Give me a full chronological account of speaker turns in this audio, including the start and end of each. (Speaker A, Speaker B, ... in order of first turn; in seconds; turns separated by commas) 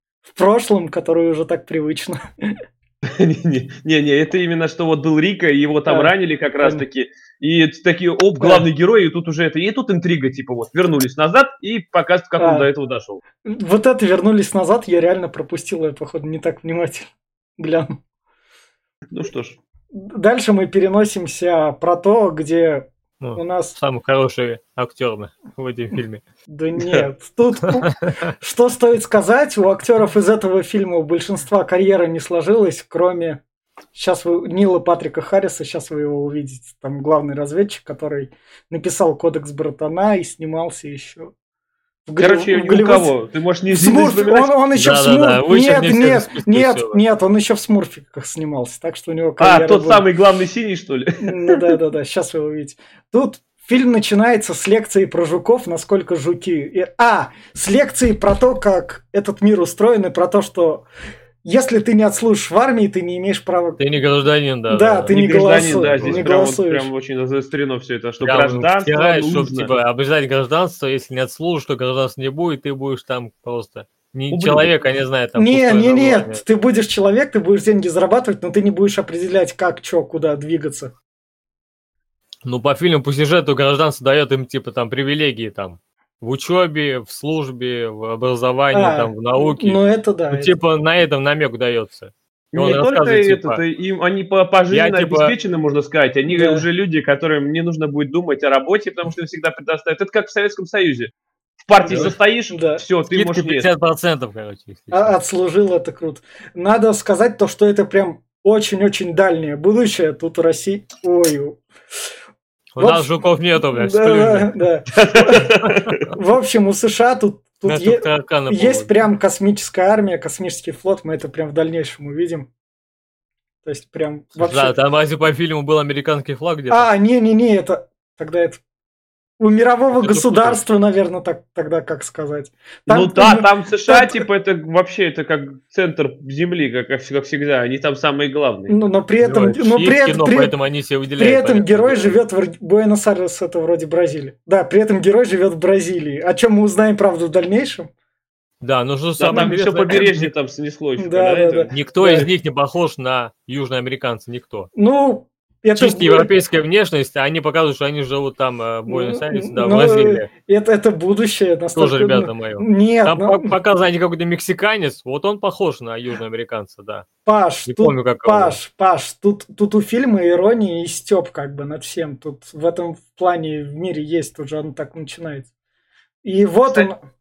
Speaker A: 0.3-2.5, Speaker B: 3.0-13.2, Speaker A: 5.9-6.8, Speaker A: 8.4-8.7, Speaker A: 12.4-12.7, Speaker A: 13.4-18.0, Speaker B: 19.1-19.6, Speaker A: 19.9-23.8, Speaker C: 23.2-26.2, Speaker A: 26.5-33.4, Speaker A: 33.9-41.3, Speaker A: 42.1-43.1, Speaker B: 42.2-44.5, Speaker A: 43.7-50.0, Speaker C: 44.8-47.0, Speaker B: 49.4-51.6, Speaker A: 51.2-60.9, Speaker A: 61.4-63.8, Speaker C: 63.8-66.3, Speaker A: 64.7-66.9, Speaker B: 65.1-69.7, Speaker C: 68.2-76.4, Speaker B: 74.3-74.7, Speaker A: 75.4-80.9, Speaker C: 82.5-89.8, Speaker A: 88.7-90.5, Speaker C: 90.3-93.6, Speaker B: 92.5-101.1, Speaker C: 94.7-95.3, Speaker A: 96.3-96.7, Speaker B: 101.7-103.7, Speaker A: 101.8-102.8, Speaker C: 101.9-102.2, Speaker C: 103.1-105.2, Speaker A: 104.9-111.6, Speaker C: 112.8-114.7, Speaker A: 112.8-113.1, Speaker A: 113.7-115.5, Speaker B: 115.0-116.0, Speaker C: 115.6-116.0, Speaker A: 116.1-122.5, Speaker C: 117.7-119.0, Speaker A: 123.7-124.8, Speaker C: 124.3-126.9, Speaker A: 126.7-128.6, Speaker A: 129.4-134.3, Speaker C: 129.9-130.6, Speaker B: 132.9-138.8, Speaker A: 138.7-140.5, Speaker C: 139.2-142.2, Speaker A: 141.2-147.9, Speaker C: 148.6-150.3, Speaker B: 149.2-151.7, Speaker A: 151.0-152.3, Speaker C: 151.7-154.7, Speaker A: 154.8-156.3, Speaker C: 155.8-160.3, Speaker A: 158.9-163.5, Speaker C: 161.8-167.1, Speaker A: 167.3-175.5, Speaker C: 167.7-168.6, Speaker A: 176.2-177.0